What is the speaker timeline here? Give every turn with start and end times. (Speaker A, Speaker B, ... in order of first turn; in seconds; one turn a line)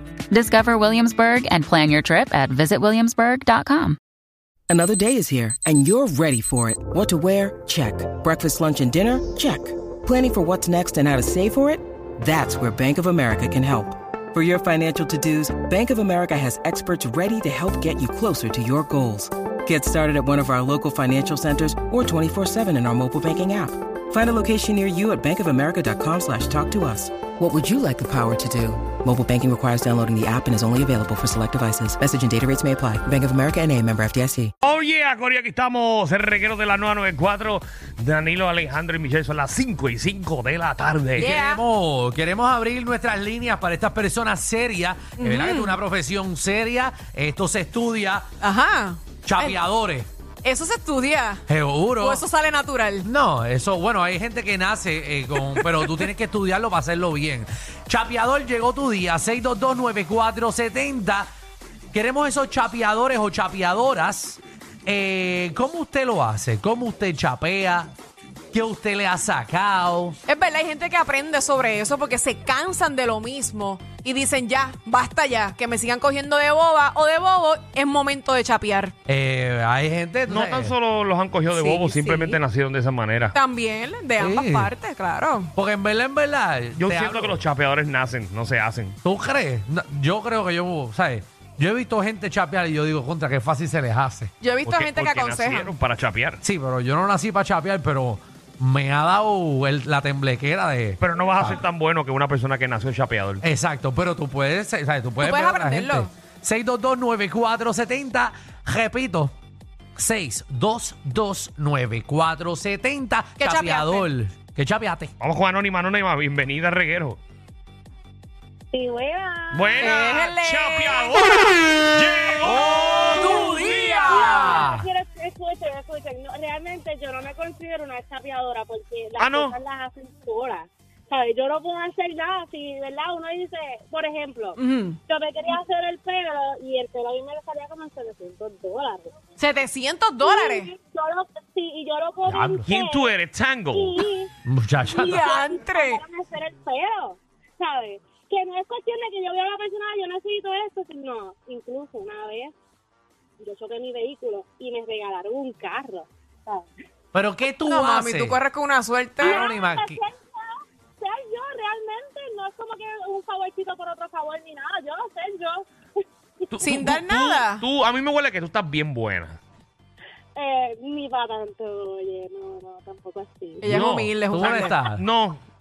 Speaker A: 0.3-4.0
Speaker B: 4.7-34.5
Speaker C: 34.6-41.3
Speaker D: 41.1-48.3
Speaker E: 41.2-41.6
Speaker E: 45.2-45.8
Speaker E: 48.4-49.6
Speaker D: 49.2-50.1
Speaker E: 50.4-51.5
Speaker D: 51.5-52.3
Speaker E: 52.0-53.0
Speaker D: 53.0-61.3
Speaker D: 61.9-67.9
Speaker D: 68.5-70.2
Speaker E: 70.2-78.9
Speaker D: 79.1-80.8
Speaker C: 80.3-83.3
Speaker E: 81.5-82.4
Speaker E: 83.3-85.5
Speaker D: 84.2-84.7
Speaker D: 85.5-87.4
Speaker C: 86.8-89.0
Speaker D: 89.0-94.3
Speaker E: 94.4-95.7
Speaker C: 94.6-96.4
Speaker D: 96.4-101.6
Speaker C: 101.0-103.4
Speaker D: 103.4-109.3
Speaker E: 105.2-106.1
Speaker D: 110.0-115.1
Speaker E: 113.4-114.1
Speaker C: 115.2-117.2
Speaker F: 118.7-119.9
Speaker C: 119.5-124.2
Speaker E: 119.8-121.3
Speaker E: 122.5-124.2
Speaker D: 123.1-124.8
Speaker F: 123.2-139.1
Speaker C: 129.2-129.6
Speaker E: 134.6-135.0
Speaker E: 139.4-140.7
Speaker F: 140.2-143.1
Speaker D: 142.2-142.7
Speaker C: 142.6-144.1
Speaker F: 143.7-144.3
Speaker D: 144.4-145.2
Speaker F: 144.9-152.5
Speaker E: 145.1-146.0
Speaker F: 153.4-156.7
Speaker D: 157.1-158.4
Speaker E: 157.7-159.4
Speaker F: 159.2-160.5
Speaker D: 159.2-160.0
Speaker F: 161.0-165.7
Speaker C: 166.5-169.4
Speaker E: 166.6-167.6
Speaker F: 170.3-173.8
Speaker E: 173.6-174.8
Speaker C: 173.6-175.4
Speaker D: 174.3-175.0